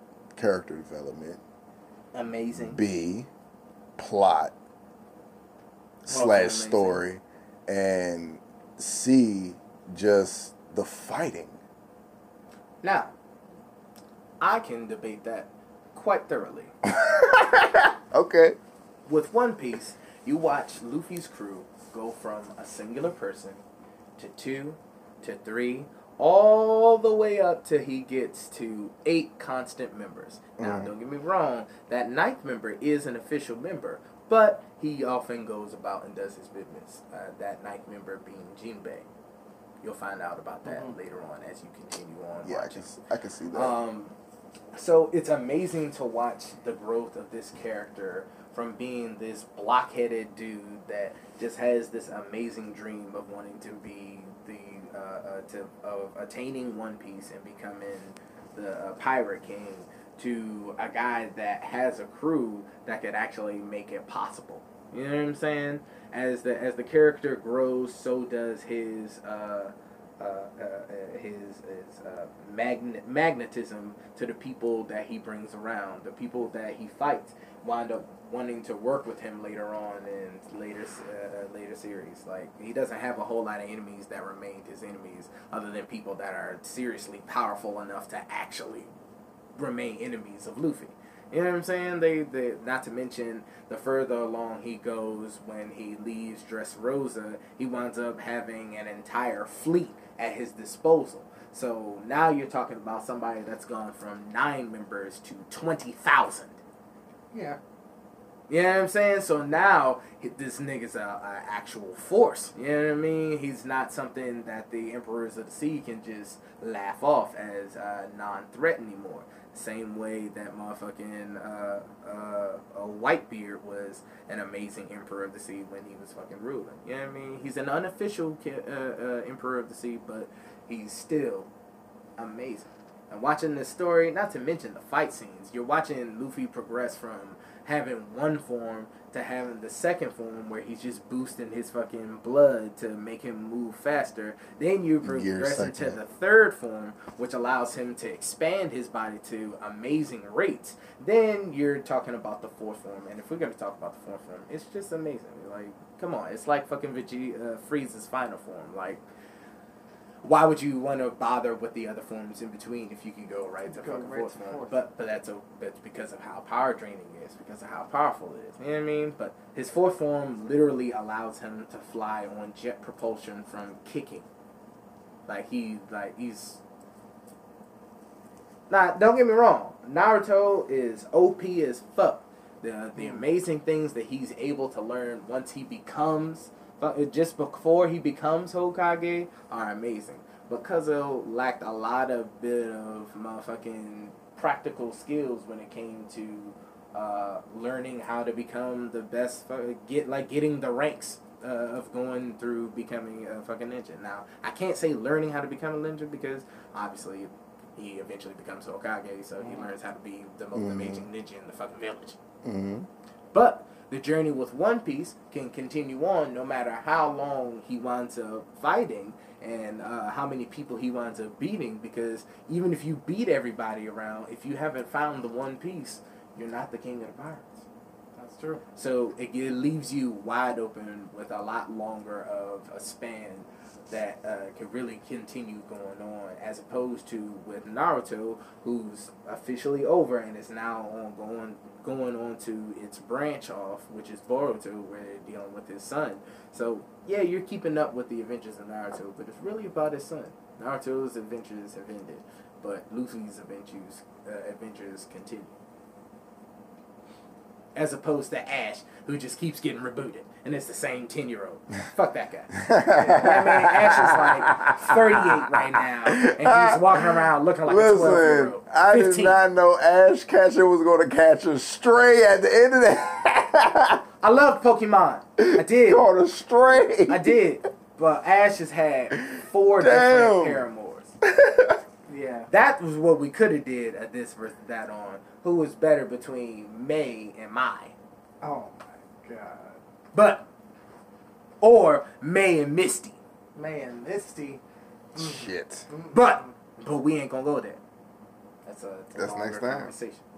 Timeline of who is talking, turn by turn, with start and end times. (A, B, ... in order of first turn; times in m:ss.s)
0:00.4-0:01.4 A
0:02.1-0:02.8 B
0:02.6-0:03.3 A
0:04.0-0:04.5 A
0:06.0-0:11.6 A
0:06.1-0:07.0 B
0:12.8-0:13.1 B
0:14.4-0:16.7 B
0:16.9-0:18.6 A
0:19.1-0:23.6 B
0:24.2-0:39.1 B
0:30.6-0:30.9 A
0:39.8-0:42.9 B
0:40.7-0:40.9 C
0:42.4-0:43.8 A
0:43.5-0:44.2 B
0:44.7-1:28.9 B
1:29.6-1:46.6 B
1:47.3-1:47.6 C
1:48.5-2:11.5 B
2:12.2-2:39.0 B
2:25.0-2:26.0 A
2:40.2-2:54.3 B
2:43.7-2:44.8 C
2:55.3-2:56.6 B
2:58.7-3:32.2 B
3:03.0-3:03.2 C
3:29.4-3:29.7 C
3:30.6-3:31.1 A
3:32.4-3:32.9 A
3:33.3-3:47.6 B
3:48.2-3:48.6 C
3:48.8-4:15.5 B
4:17.8-4:29.4 B
4:22.6-4:25.5 A
4:26.2-4:34.0 A
4:34.2-4:36.0 B
4:35.4-4:37.4 A
4:37.1-4:41.2 B
4:39.2-4:40.6 A
4:41.2-4:41.8 A
4:42.1-4:42.5 C
4:42.5-4:47.9 B
4:48.4-4:49.8 C
4:50.1-4:50.5 B
4:51.6-4:53.2 B
4:53.6-4:54.6 C
4:55.2-4:55.9 A
4:55.2-4:56.5 C
4:56.1-4:57.8 B
4:58.6-5:00.2 B
4:59.2-4:59.9 A